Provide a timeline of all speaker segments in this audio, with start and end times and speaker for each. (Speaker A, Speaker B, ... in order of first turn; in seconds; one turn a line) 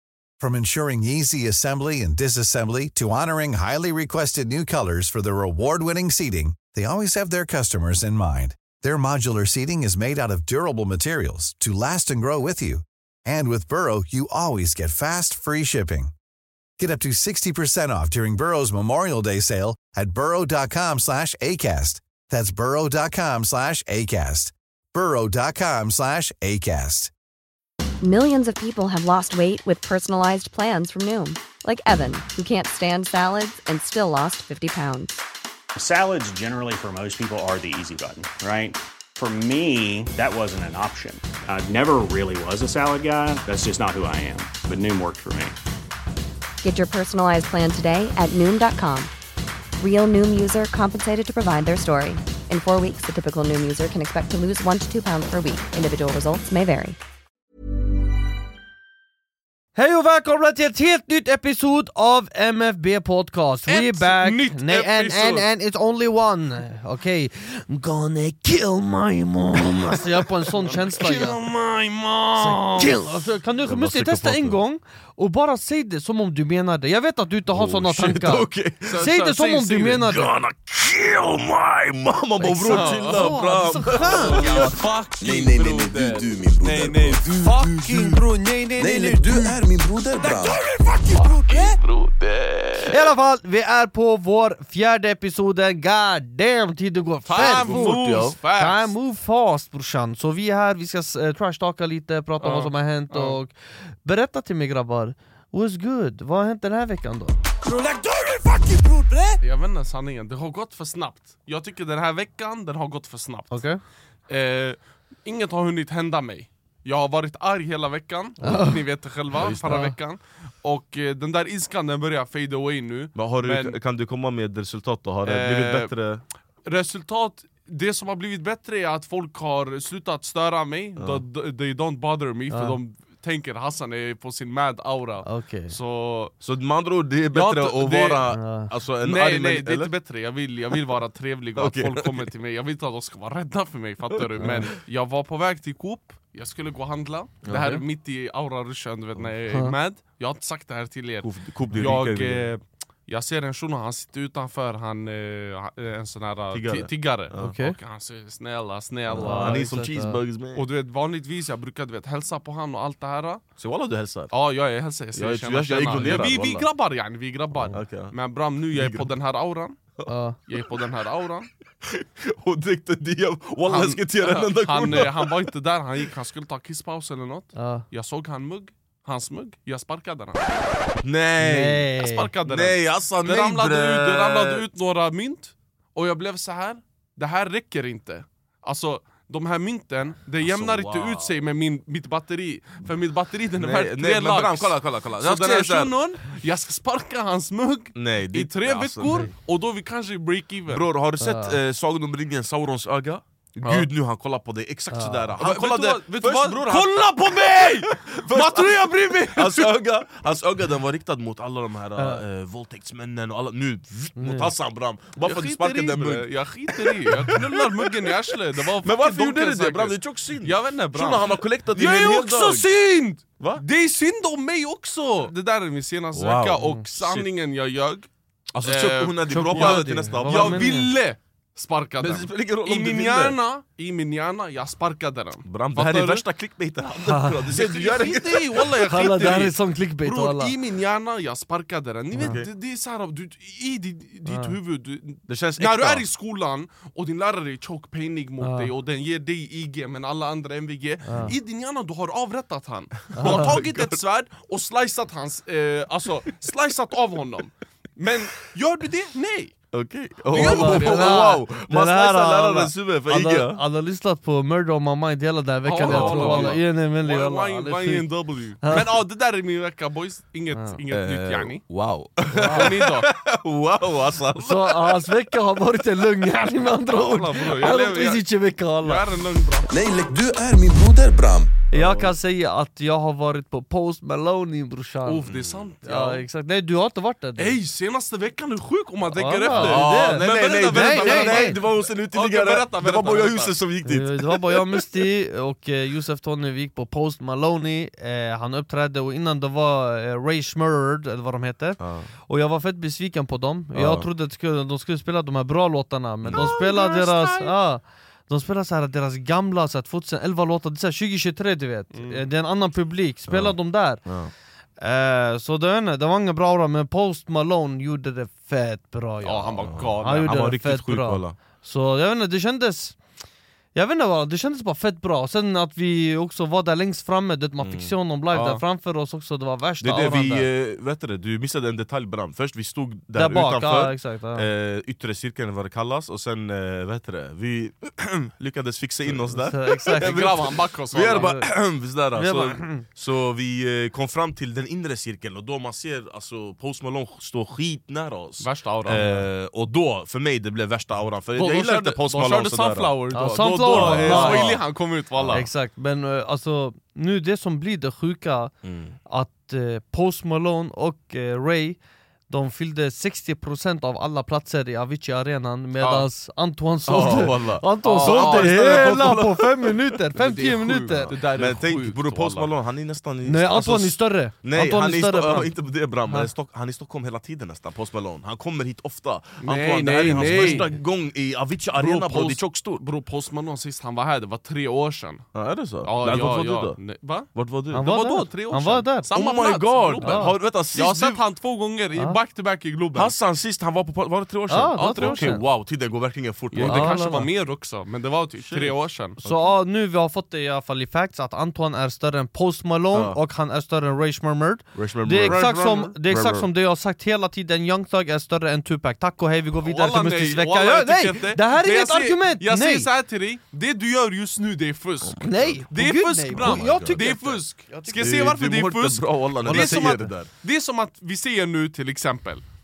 Speaker A: 0.4-16.1
Speaker A: 16.8-27.1
Speaker B: 28.0-35.2
Speaker C: 35.8-45.5
Speaker B: 46.6-49.1
Speaker B: 49.8-57.0
Speaker D: 59.7-71.4
Speaker E: 63.7-65.5
Speaker E: 70.6-72.9
Speaker D: 72.4-80.3
Speaker F: 73.6-74.6
Speaker F: 77.5-79.0
Speaker E: 78.9-80.0
Speaker F: 80.0-87.7
Speaker D: 82.4-84.4
Speaker E: 82.6-87.7
Speaker G: 84.6-88.2
Speaker D: 87.4-89.6
Speaker G: 88.8-90.7
Speaker F: 88.8-90.5
Speaker E: 90.2-92.9
Speaker D: 90.9-91.6
Speaker F: 92.6-92.9
Speaker D: 92.9-107.4
Speaker E: 97.3-98.9
Speaker F: 97.4-98.4
Speaker E: 102.4-103.4
Speaker E: 107.6-108.7
Speaker D: 108.7-109.4
Speaker E: 109.4-113.6
Speaker D: 113.5-113.8
Speaker E: 114.3-123.8
Speaker D: 118.4-118.8
Speaker F: 119.3-119.8
Speaker D: 119.7-120.0
Speaker F: 123.2-126.2
Speaker E: 125.2-125.9
Speaker E: 126.7-136.3
Speaker F: 131.0-131.2
Speaker D: 132.5-132.8
Speaker D: 135.2-135.8
Speaker F: 136.4-139.9
Speaker E: 137.3-138.3
Speaker D: 138.3-138.7
Speaker E: 139.0-159.7
Speaker F: 141.6-142.2
Speaker F: 144.4-144.6
Speaker D: 144.4-144.7
Speaker D: 147.5-147.8
Speaker D: 149.5-149.7
Speaker F: 151.2-152.5
Speaker F: 156.5-157.5
Speaker D: 157.4-157.8
Speaker F: 159.1-160.7
Speaker D: 159.2-160.2
Speaker E: 160.5-163.4
Speaker F: 163.6-164.3
Speaker E: 164.3-169.8
Speaker F: 165.1-166.7
Speaker D: 166.1-166.5
Speaker F: 167.7-168.1
Speaker F: 168.7-169.1
Speaker D: 170.1-170.4
Speaker E: 170.5-171.5
Speaker F: 171.8-175.5
Speaker E: 173.6-180.6
Speaker D: 177.6-177.8
Speaker F: 181.0-181.9
Speaker D: 181.4-182.3
Speaker E: 182.0-200.8
Speaker F: 182.4-184.6
Speaker F: 190.4-191.3
Speaker F: 193.6-195.9
Speaker F: 197.9-199.1
Speaker D: 199.0-199.3
Speaker F: 200.7-216.2
Speaker D: 201.2-201.6
Speaker E: 203.6-203.9
Speaker D: 204.9-205.3
Speaker E: 205.4-209.8
Speaker D: 211.9-212.2
Speaker D: 214.2-214.5
Speaker E: 215.2-228.1
Speaker F: 216.8-218.2
Speaker F: 218.7-222.7
Speaker F: 226.1-227.3
Speaker F: 228.5-230.7
Speaker E: 228.6-236.2
Speaker D: 229.3-230.9
Speaker F: 232.0-233.4
Speaker F: 235.4-239.0
Speaker D: 237.0-237.5
Speaker E: 237.5-259.6
Speaker D: 238.8-240.5
Speaker D: 242.1-242.4
Speaker F: 242.2-242.5
Speaker D: 244.2-244.6
Speaker F: 245.3-246.0
Speaker D: 248.4-248.7
Speaker D: 251.1-251.3
Speaker F: 253.1-254.0
Speaker D: 253.1-253.5
Speaker F: 259.7-263.6
Speaker E: 260.3-261.4
Speaker D: 260.3-268.1
Speaker E: 265.6-271.6
Speaker F: 265.8-266.6
Speaker D: 268.6-269.0
Speaker F: 270.9-275.1
Speaker D: 272.3-272.7
Speaker E: 272.3-273.1
Speaker D: 274.4-279.0
Speaker E: 276.9-278.2
Speaker E: 278.8-279.7
Speaker G: 279.7-281.5
Speaker F: 281.2-282.1
Speaker D: 281.7-285.3
Speaker E: 285.1-286.2
Speaker F: 285.2-285.7
Speaker D: 285.8-287.6
Speaker E: 287.4-293.5
Speaker D: 289.1-291.6
Speaker F: 289.5-294.8
Speaker D: 293.9-314.1
Speaker F: 301.8-302.1
Speaker F: 303.8-304.1
Speaker F: 306.2-306.5
Speaker E: 306.4-307.5
Speaker E: 311.9-312.2
Speaker F: 313.3-314.3
Speaker D: 314.8-323.0
Speaker E: 319.2-320.3
Speaker F: 319.7-321.4
Speaker D: 323.7-330.5
Speaker F: 327.6-327.9
Speaker E: 328.3-328.6
Speaker F: 329.8-354.6
Speaker D: 333.1-334.5
Speaker D: 339.4-340.3
Speaker E: 340.0-341.3
Speaker D: 341.1-341.5
Speaker D: 342.1-342.8
Speaker E: 348.4-349.0
Speaker D: 349.0-349.2
Speaker E: 351.4-355.5
Speaker D: 353.1-354.6
Speaker F: 355.2-355.4
Speaker D: 355.3-358.5
Speaker F: 358.6-358.9
Speaker D: 359.1-361.8
Speaker D: 362.3-371.1
Speaker E: 365.8-366.1
Speaker F: 366.9-369.8
Speaker E: 367.8-369.2
Speaker E: 370.1-372.5
Speaker F: 371.1-382.8
Speaker D: 373.2-375.5
Speaker D: 376.1-376.3
Speaker E: 379.4-380.7
Speaker D: 380.1-380.7
Speaker E: 381.7-385.3
Speaker F: 385.4-386.8
Speaker E: 385.8-393.1
Speaker F: 387.4-387.9
Speaker D: 387.7-389.1
Speaker F: 389.1-391.2
Speaker D: 390.0-390.4
Speaker F: 392.9-397.3
Speaker D: 394.5-395.4
Speaker E: 395.0-395.4
Speaker E: 396.5-399.2
Speaker D: 396.6-397.3
Speaker F: 398.4-399.6
Speaker D: 399.2-412.9
Speaker F: 402.9-403.2
Speaker F: 404.8-406.5
Speaker E: 405.2-405.9
Speaker E: 409.6-422.4
Speaker F: 415.0-415.7
Speaker D: 415.2-418.1
Speaker F: 416.3-417.0
Speaker F: 418.0-420.3
Speaker D: 419.4-420.1